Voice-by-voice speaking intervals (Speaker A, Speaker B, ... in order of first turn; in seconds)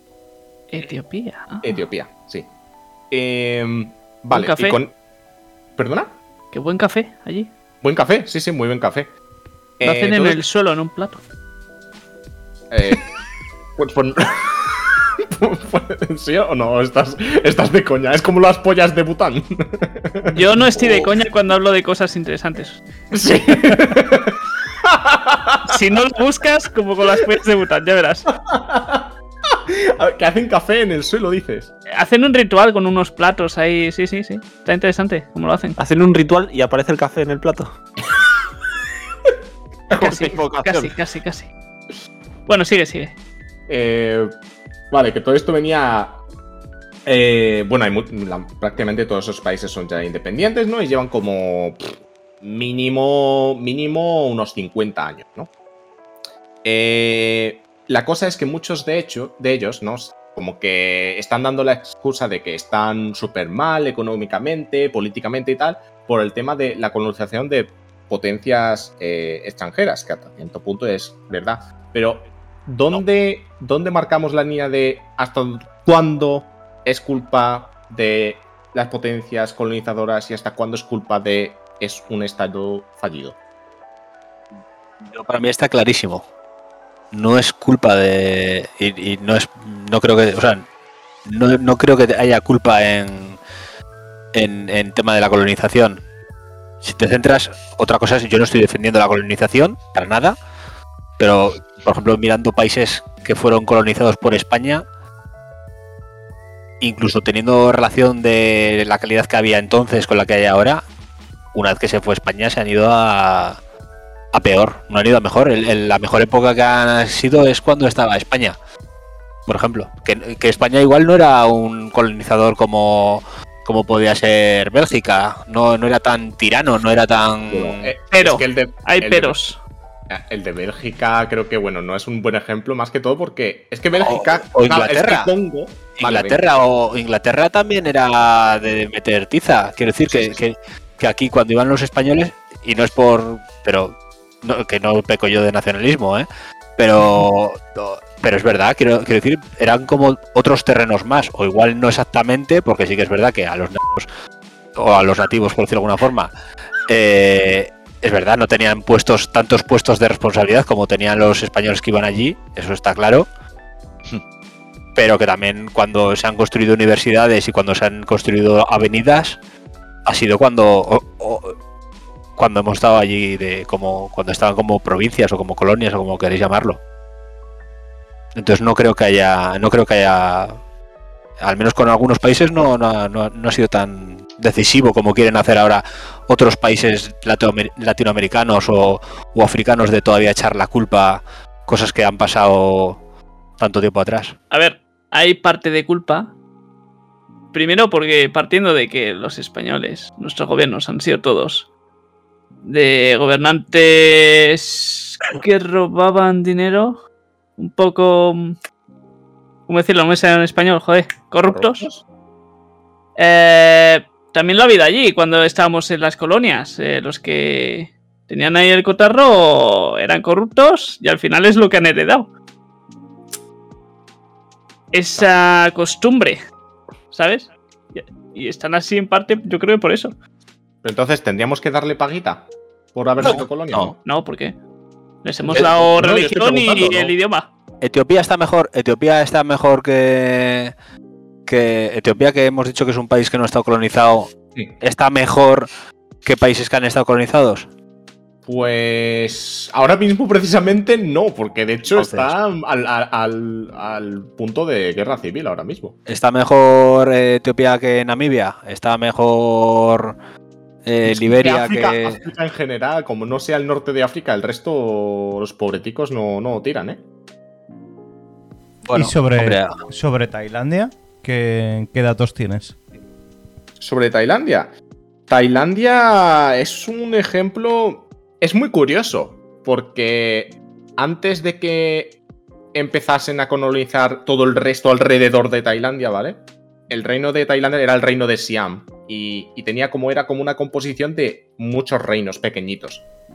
Speaker A: 0.7-1.8, 4.3-4.8, 6.5-7.5, 9.8-11.2, 20.3-22.8, 25.7-28.3, 31.9-35.8, 40.1-41.5, 42.5-43.1, 128.1-129.6, 194.5-196.3, 197.5-201.7, 202.6-207.0, 207.6-208.6, 209.7-211.9, 213.2-222.3, 224.9-226.4, 227.1-230.2, 234.0-234.6, 235.2-237.5
Speaker B: 1.6-2.5, 3.1-4.9, 5.8-6.2, 7.8-9.1, 9.8-10.4, 12.7-13.1, 13.8-21.1, 23.1-25.8, 28.5-31.7, 40.0-40.3, 43.7-44.3, 44.9-46.2, 47.1-55.5, 56.6-83.4, 127.5-129.4, 130.1-136.5, 140.1-140.4, 211.5-212.0, 230.8-233.9, 235.5-237.1, 248.4-255.9, 261.1-267.0, 273.8-274.7, 275.3-282.2, 282.7-293.1
Speaker C: 35.8-37.7, 39.9-40.9
Speaker D: 85.1-86.3, 87.1-90.7, 91.3-93.4, 94.3-96.0, 96.8-100.4, 101.2-104.8, 106.8-110.8, 111.5-113.6, 114.3-118.6, 119.5-127.9, 134.0-135.3, 136.0-154.1, 154.8-156.3, 156.9-163.3, 165.0-169.4, 170.1-171.6, 172.4-176.8, 178.3-180.6, 181.4-193.0, 193.6-194.4, 233.2-233.9, 237.8-240.7, 241.5-245.7, 246.2-247.7, 251.9-252.3, 256.1-260.1, 260.9-262.2, 268.9-269.7
Speaker E: 268.9-272.8